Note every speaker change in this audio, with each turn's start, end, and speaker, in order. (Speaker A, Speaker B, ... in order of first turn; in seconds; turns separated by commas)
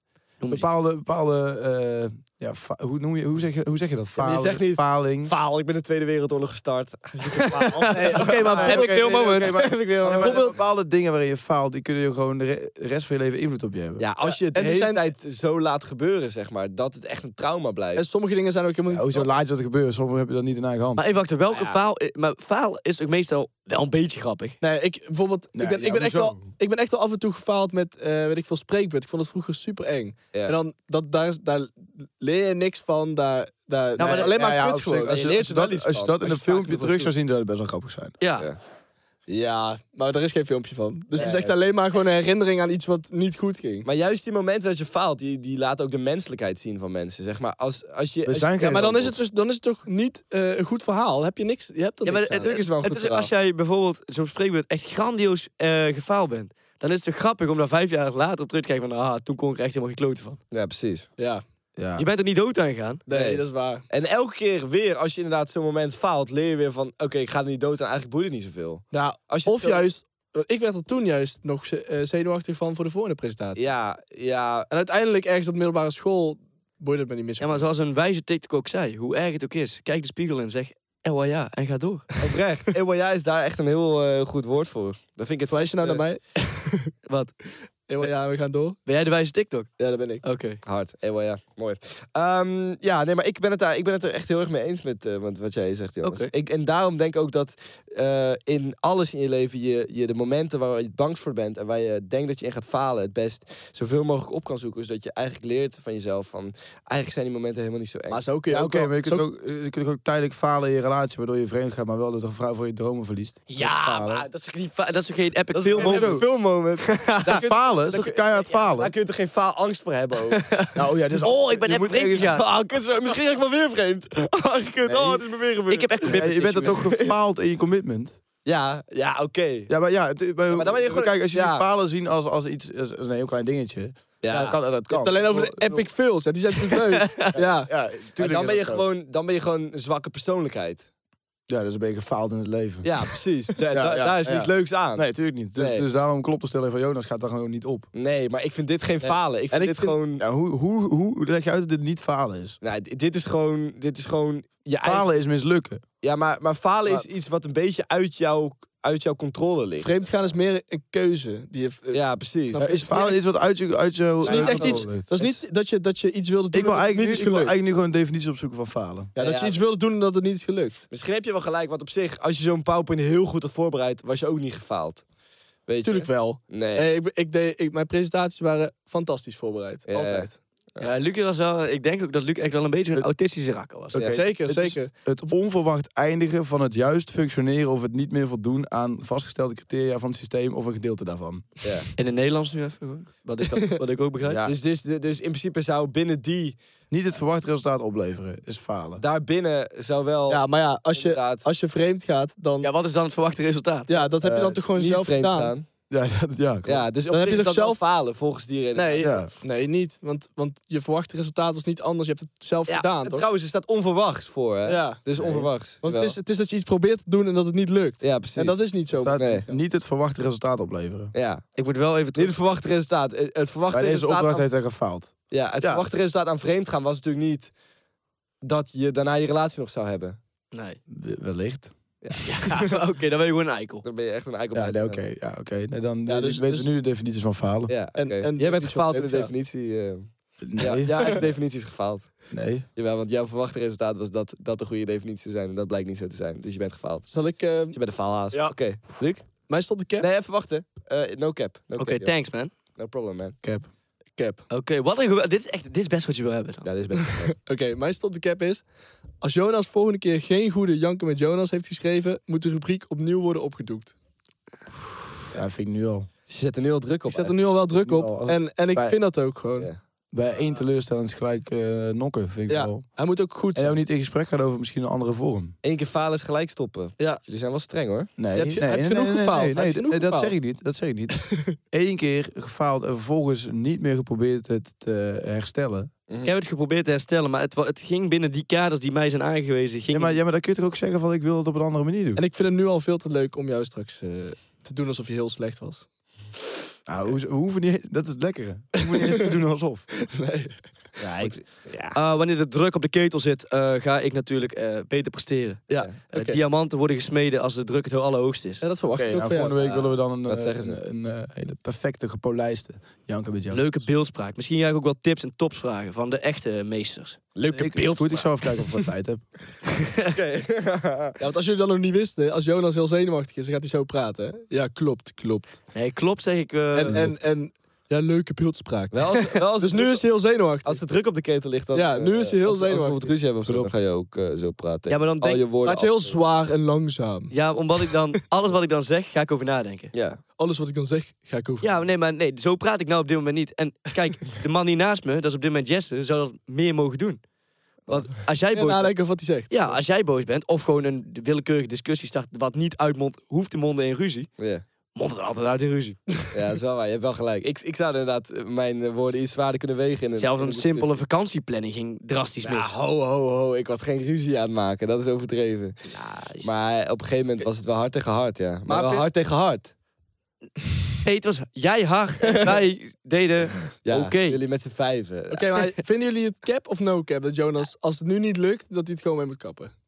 Speaker A: 0.4-0.7, Speaker B: 0.5-5.3, Speaker C: 4.2-10.6, Speaker A: 7.3-9.5, Speaker D: 7.9-9.3, Speaker B: 8.2-14.0, Speaker D: 10.0-10.6, Speaker C: 14.0-18.0, Speaker D: 14.2-15.1, Speaker D: 17.9-19.3, Speaker B: 18.9-21.0, Speaker A: 21.0-24.6, Speaker C: 21.5-21.8, Speaker D: 24.6-35.2, Speaker B: 25.5-26.4, Speaker A: 34.0-34.3, Speaker B: 34.0-38.1, Speaker C: 35.0-37.1, Speaker A: 38.2-38.5, Speaker D: 39.3-43.9, Speaker B: 41.1-41.5, Speaker C: 43.8-49.2, Speaker B: 48.2-49.0, Speaker D: 48.6-52.5, Speaker A: 52.0-60.4, Speaker C: 52.4-53.3, Speaker C: 60.5-61.1, Speaker D: 61.2-61.4, Speaker B: 61.8-62.1, Speaker A: 62.0-63.0, Speaker D: 63.1-63.8, Speaker C: 63.1-69.8, Speaker D: 68.9-73.6, Speaker C: 73.5-74.7, Speaker D: 74.7-77.6, Speaker A: 77.4-82.1, Speaker C: 82.2-86.0, Speaker D: 85.5-86.9, Speaker A: 87.0-87.3, Speaker D: 87.9-88.8, Speaker A: 88.8-89.7, Speaker D: 89.8-90.2, Speaker A: 90.2-90.6, Speaker C: 90.6-108.2, Speaker A: 96.0-96.3, Speaker D: 108.1-109.2, Speaker B: 108.5-114.3, Speaker A: 113.5-116.2, Speaker C: 115.5-120.4, Speaker B: 115.8-116.3, Speaker A: 116.9-117.2, Speaker B: 117.2-118.9, Speaker A: 120.3-122.4, Speaker B: 120.8-122.4, Speaker C: 122.2-126.2, Speaker A: 125.7-126.9, Speaker B: 126.1-128.2, Speaker C: 126.8-127.1, Speaker C: 128.4-129.7, Speaker B: 129.7-135.9, Speaker C: 130.5-131.7, Speaker C: 134.2-134.6, Speaker D: 134.3-137.7, Speaker A: 136.9-137.3, Speaker B: 137.3-138.8, Speaker C: 138.2-140.8, Speaker B: 141.5-143.1, Speaker C: 142.8-145.8, Speaker B: 143.6-147.9, Speaker C: 147.9-150.2, Speaker D: 149.0-149.9, Speaker B: 150.2-152.6, Speaker C: 152.6-155.1, Speaker B: 154.8-155.8, Speaker C: 156.0-159.9, Speaker D: 159.8-163.2, Speaker C: 161.9-162.8, Speaker B: 162.6-165.4, Speaker D: 164.2-167.5, Speaker C: 164.2-164.9, Speaker B: 166.5-169.1, Speaker D: 169.1-170.8, Speaker C: 169.2-169.6, Speaker C: 170.9-175.0, Speaker C: 175.7-176.9, Speaker D: 175.8-180.4, Speaker C: 179.9-180.9, Speaker A: 180.8-183.9, Speaker B: 183.9-191.5, Speaker C: 183.9-184.2, Speaker D: 184.0-185.1, Speaker C: 191.6-191.9, Speaker A: 192.0-194.4, Speaker B: 194.2-194.5, Speaker C: 194.4-196.6, Speaker B: 196.9-199.0, Speaker C: 199.0-201.5, Speaker D: 200.3-202.7, Speaker A: 202.6-203.9, Speaker D: 203.9-205.5, Speaker B: 204.2-204.6, Speaker C: 204.7-205.7, Speaker B: 205.9-206.9, Speaker C: 206.6-209.2, Speaker D: 207.1-207.8, Speaker D: 208.7-213.2, Speaker B: 209.0-209.3, Speaker C: 212.7-216.2, Speaker D: 214.7-215.0, Speaker B: 215.2-215.5, Speaker D: 215.8-219.6, Speaker C: 218.0-218.6, Speaker B: 218.9-221.1, Speaker C: 219.1-219.4, Speaker C: 221.1-221.4, Speaker A: 221.6-222.3, Speaker C: 222.1-224.5, Speaker B: 223.7-225.8, Speaker C: 225.3-227.5, Speaker C: 228.4-230.2, Speaker A: 230.5-230.8, Speaker B: 230.9-231.7, Speaker C: 232.0-232.3, Speaker A: 232.2-233.8, Speaker C: 233.8-235.0, Speaker B: 234.5-237.7, Speaker D: 236.1-236.7, Speaker C: 237.7-253.4, Speaker D: 237.9-239.3, Speaker B: 240.4-241.2, Speaker B: 242.3-242.7, Speaker D: 247.1-247.8, Speaker D: 249.5-250.1, Speaker A: 251.8-252.5, Speaker B: 253.4-253.7, Speaker D: 254.2-254.4, Speaker A: 254.5-256.7, Speaker C: 256.6-257.4, Speaker D: 257.4-258.6, Speaker D: 259.2-263.9, Speaker B: 265.3-266.1, Speaker C: 266.3-267.4, Speaker D: 267.1-269.7, Speaker B: 267.8-269.0, Speaker B: 270.1-275.5, Speaker D: 272.5-273.8, Speaker C: 275.6-278.1, Speaker B: 278.2-285.9, Speaker D: 278.3-280.3, Speaker D: 281.1-281.6, Speaker A: 286.2-290.2, Speaker B: 289.9-292.2, Speaker D: 292.1-295.9, Speaker B: 296.9-300.0, Speaker D: 298.9-299.2, Speaker D: 300.1-300.7, Speaker C: 301.0-302.0, Speaker A: 301.9-308.6, Speaker D: 305.7-306.4, Speaker D: 308.6-309.9, Speaker B: 308.9-313.9, Speaker C: 310.2-310.8, Speaker A: 313.5-317.2, Speaker C: 317.4-318.3, Speaker B: 317.5-319.2, Speaker A: 319.8-320.1, Speaker C: 320.1-321.2, Speaker D: 321.2-325.6, Speaker A: 325.7-327.0, Speaker D: 326.7-330.8, Speaker B: 326.9-327.2, Speaker C: 328.9-330.0, Speaker C: 330.6-336.2, Speaker D: 331.7-333.1, Speaker B: 333.4-333.7, Speaker A: 334.9-335.4, Speaker D: 335.6-337.3, Speaker A: 337.3-339.9, Speaker C: 339.9-340.2, Speaker D: 340.4-341.8, Speaker A: 341.6-347.2, Speaker A: 347.9-354.3, Speaker D: 348.5-349.8, Speaker C: 354.4-354.6, Speaker A: 354.9-356.0, Speaker C: 356.3-361.0, Speaker A: 360.2-362.8, Speaker C: 362.4-365.9, Speaker A: 365.9-366.5, Speaker C: 366.4-369.7, Speaker D: 368.7-369.1, Speaker A: 371.0-374.4, Speaker C: 373.8-375.7, Speaker D: 375.3-379.7